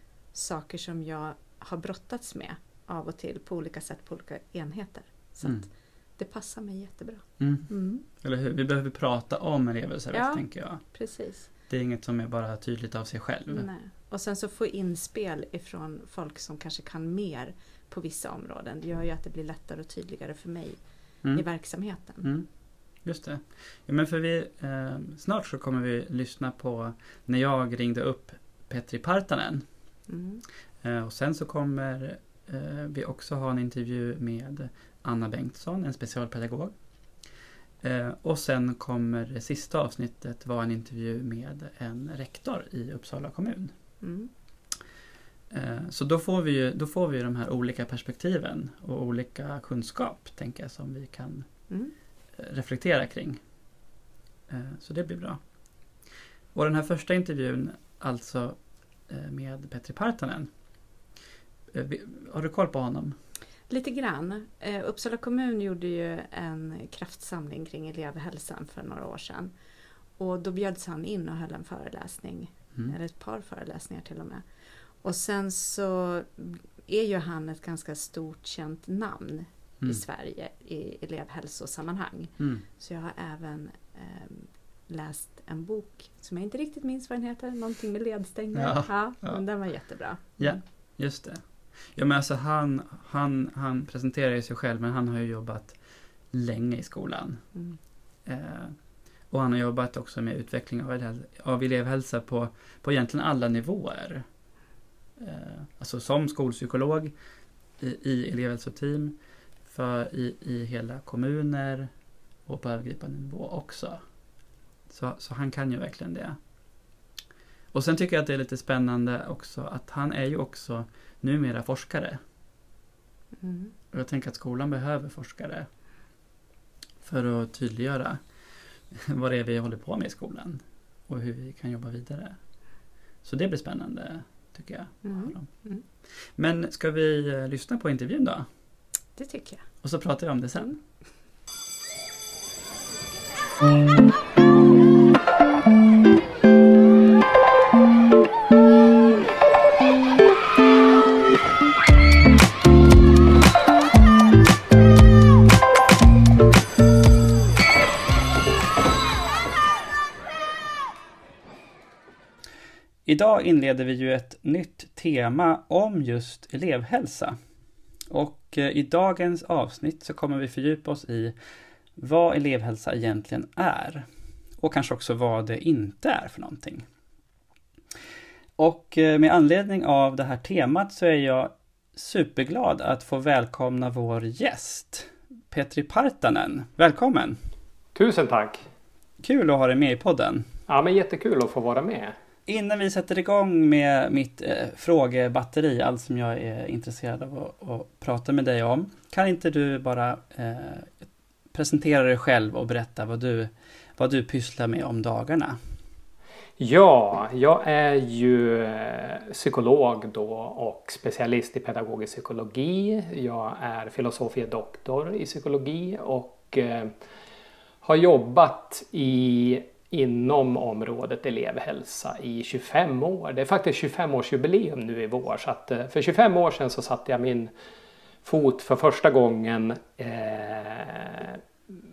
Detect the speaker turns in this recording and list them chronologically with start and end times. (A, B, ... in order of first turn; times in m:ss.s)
0:00.3-0:08.0 A
0:07.4-0:10.8 B
0:10.1-0:11.5 A
0:11.7-0:13.7 B
0:13.5-0:20.8 A
0:21.3-0:22.2 A
0:22.2-0:22.5 B
0:23.0-0:29.6 B
0:30.1-0:30.4 A
0:30.8-0:36.7 B
0:37.8-0:43.7 B
0:44.0-0:44.3 A
0:45.5-0:51.5 B
0:52.4-0:53.4 B
0:54.5-0:55.4 B
0:56.5-0:58.6 B
0:59.1-1:00.5 B
1:01.7-1:03.2 B
1:03.7-1:09.5 A
1:10.2-1:14.4 A
1:15.0-1:30.6 A
1:22.4-1:22.6 B
1:28.5-1:29.4 B
1:30.4-1:31.4 B
1:31.9-1:35.8 B
1:36.3-1:37.4 B
1:38.2-1:38.8 B
1:39.3-1:44.2 B
1:45.2-1:47.1 B
1:47.8-1:51.9 B
1:52.4-1:54.0 B
1:54.9-1:56.4 B
1:57.7-2:02.2 B
2:03.4-2:03.7 A
2:03.9-2:05.7 B
2:07.0-2:08.2 B
2:08.9-2:12.4 B
2:13.2-2:15.5 B
2:15.0-2:15.8 A
2:16.4-2:18.4 B
2:19.2-2:19.6 A
2:19.8-2:20.8 B
2:43.0-2:47.4 B
2:48.1-2:51.3 B
2:52.0-2:54.0 B
2:54.6-2:56.8 B
2:58.6-3:07.4 B
3:07.9-3:08.6 C
3:09.2-3:10.5 B
3:10.7-3:12.2 C
3:12.4-3:25.6 B
3:26.6-3:36.9 C
3:37.8-3:47.5 C
3:48.2-3:51.4 C